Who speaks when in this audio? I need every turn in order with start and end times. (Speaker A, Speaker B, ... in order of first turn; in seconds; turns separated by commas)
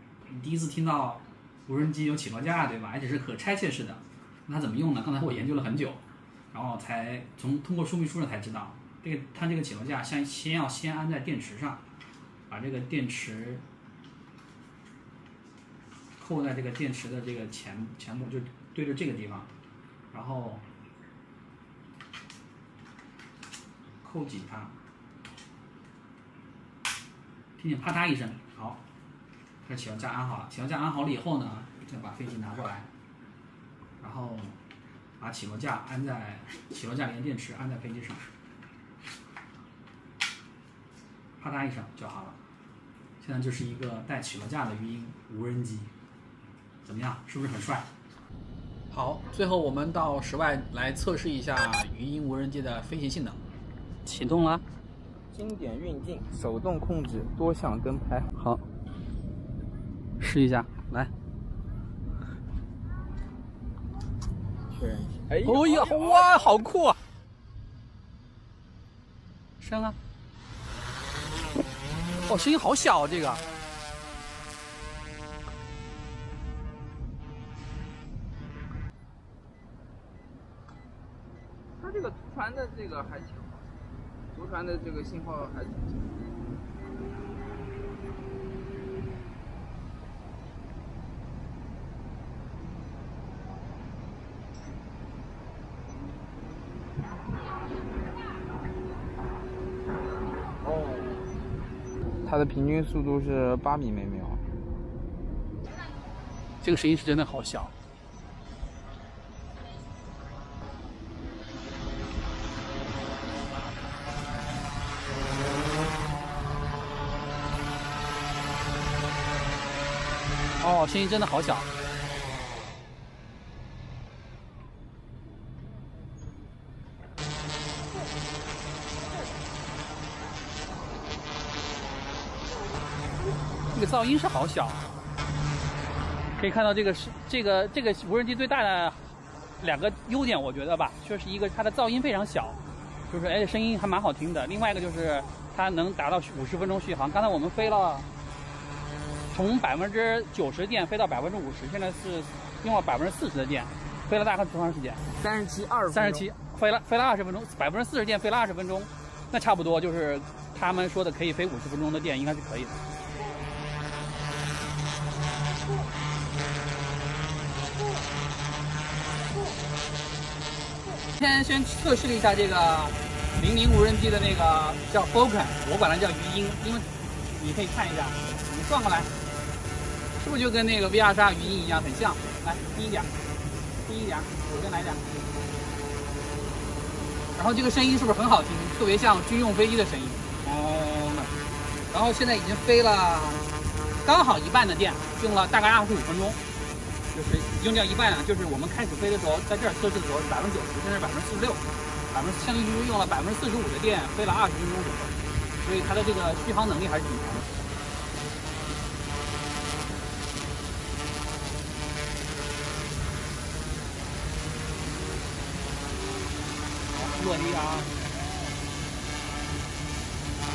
Speaker A: 0.3-11.8, Speaker A: 12.5-13.6, Speaker A: 16.2-19.5, Speaker A: 20.1-20.6, Speaker A: 24.0-24.7, Speaker A: 27.6-28.8, Speaker A: 29.6-32.9, Speaker A: 34.0-34.6, Speaker A: 35.2-38.3, Speaker A: 41.4-42.4, Speaker A: 43.2-45.9, Speaker A: 46.8-47.9, Speaker A: 48.9-53.4, Speaker A: 54.0-54.6, Speaker B: 55.3-58.3, Speaker A: 58.4-58.6, Speaker A: 60.2-61.1, Speaker B: 64.8-65.8, Speaker A: 65.4-67.0, Speaker A: 69.6-70.0, Speaker A: 72.2-73.4, Speaker B: 81.8-83.6, Speaker B: 84.3-86.0, Speaker B: 100.7-101.2, Speaker B: 102.2-104.4, Speaker A: 106.6-107.7, Speaker A: 120.6-121.7, Speaker A: 133.7-134.9, Speaker A: 136.4-139.0, Speaker A: 139.6-148.1, Speaker A: 149.3-155.0, Speaker B: 155.2-156.2, Speaker A: 155.9-162.8, Speaker A: 171.1-179.1, Speaker A: 180.1-183.1, Speaker A: 183.8-185.0, Speaker A: 187.3-191.3, Speaker A: 191.9-193.5, Speaker A: 194.0-196.4, Speaker A: 197.1-207.5, Speaker A: 216.9-217.9